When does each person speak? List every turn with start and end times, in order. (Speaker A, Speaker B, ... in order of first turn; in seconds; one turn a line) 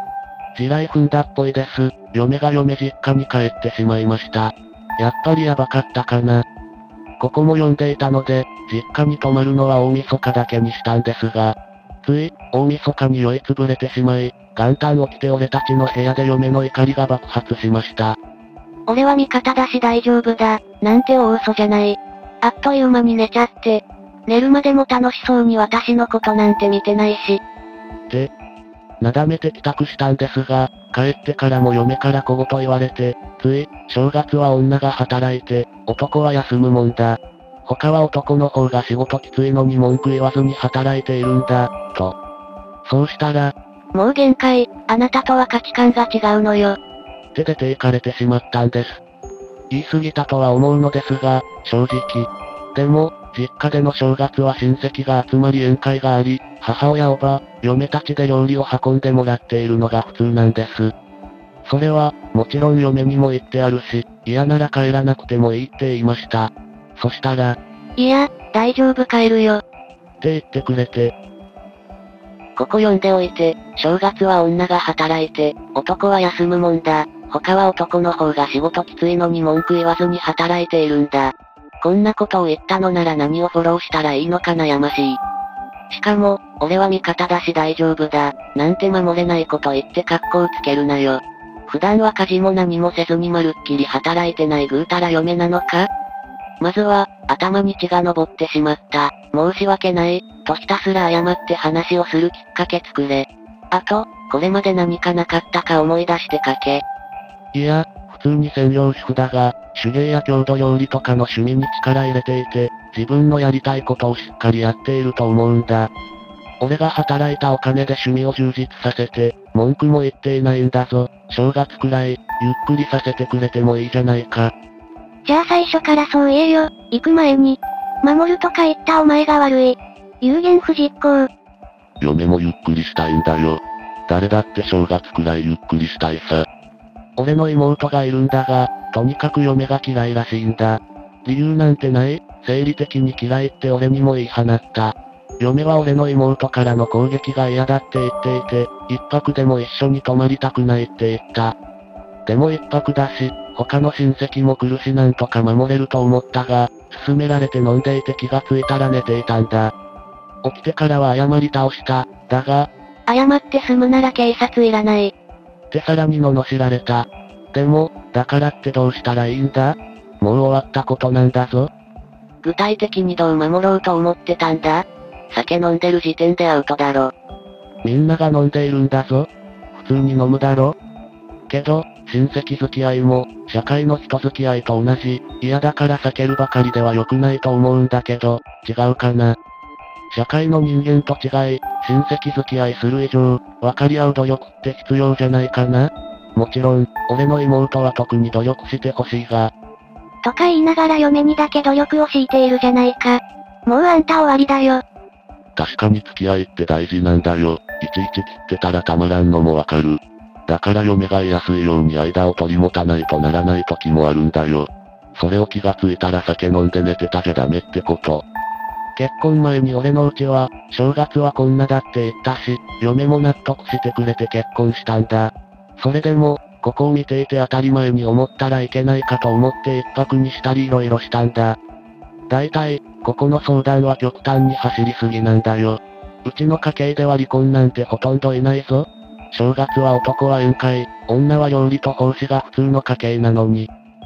Speaker A: 0.5-6.4
Speaker A: 7.2-18.2
Speaker B: 18.9-27.4
Speaker A: 29.0-42.1
Speaker A: 42.9-43.5
Speaker B: 43.9-46.8
Speaker A: 47.3-49.0
Speaker A: 49.7-60.9
Speaker A: 61.6-67.6
Speaker B: 68.0-69.6
Speaker A: 70.2-71.1
Speaker B: 72.6-85.2
Speaker B: 85.9-95.9
Speaker B: 96.6-106.8
Speaker A: 107.5-115.9
Speaker A: 116.6-124.5
Speaker B: 125.2-131.3
Speaker A: 132.0-136.4
Speaker A: 137.2-151.5
Speaker A: 152.2-159.7
Speaker A: 160.4-162.7
Speaker B: 163.1-165.1
Speaker A: 165.7-171.7
Speaker B: 172.4-177.1
Speaker A: 177.8-180.7
Speaker A: 181.5-189.4
Speaker A: 190.1-199.5
Speaker B: 200.2-204.8
Speaker A: 205.6-218.2
Speaker A: 218.9-231.6
Speaker A: 232.3-243.7